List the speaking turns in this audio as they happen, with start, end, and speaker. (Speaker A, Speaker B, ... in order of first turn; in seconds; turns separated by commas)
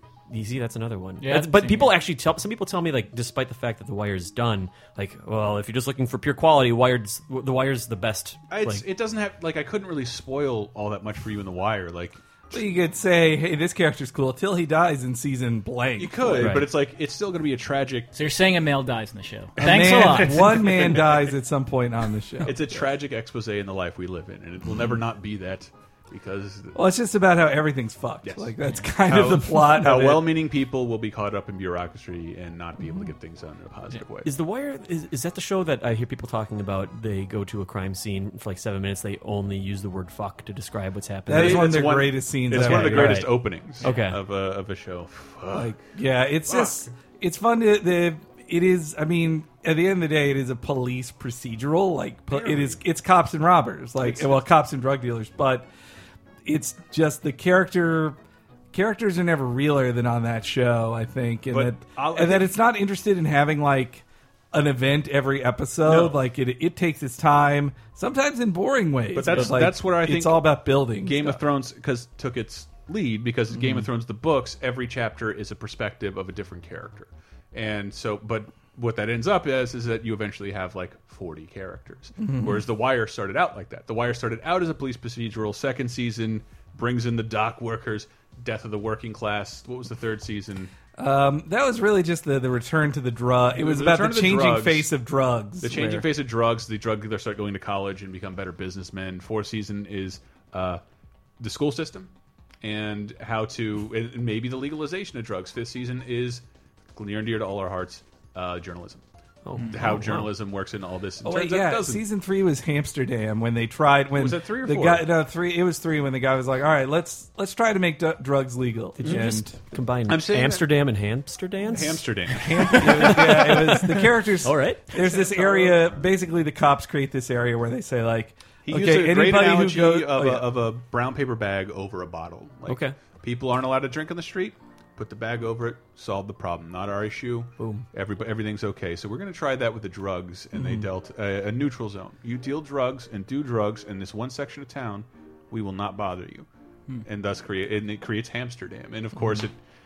Speaker A: 0.3-8.8, Speaker B: 1.2-1.9, Speaker C: 8.5-12.6, Speaker D: 12.5-16.6, Speaker C: 16.0-18.1, Speaker A: 16.4-16.7, Speaker B: 18.1-20.6, Speaker D: 19.6-22.9, Speaker C: 19.6-21.3, Speaker C: 22.4-26.8, Speaker D: 26.7-30.4, Speaker C: 28.2-34.3, Speaker A: 34.2-41.9, Speaker D: 41.2-43.3, Speaker C: 41.3-45.8, Speaker A: 42.5-44.2, Speaker D: 45.5-55.7, Speaker C: 46.5-46.9, Speaker C: 52.3-52.8, Speaker C: 54.0-54.4, Speaker D: 56.4-58.2, Speaker D: 58.7-71.4, Speaker C: 61.5-62.5, Speaker C: 65.8-66.2, Speaker C: 69.1-90.7, Speaker D: 82.2-82.7, Speaker D: 91.0-96.1, Speaker C: 93.5-94.9, Speaker C: 95.6-100.8, Speaker C: 101.4-102.1, Speaker C: 102.6-106.4, Speaker C: 106.9-109.0, Speaker A: 109.4-110.3, Speaker C: 109.7-112.0, Speaker D: 111.2-119.6, Speaker C: 114.1-115.1, Speaker A: 119.0-124.9, Speaker C: 120.1-120.7, Speaker C: 121.6-123.3, Speaker D: 122.4-130.5, Speaker C: 125.0-126.0, Speaker C: 128.6-146.5, Speaker A: 132.7-132.9, Speaker A: 137.6-137.8, Speaker C: 147.0-149.5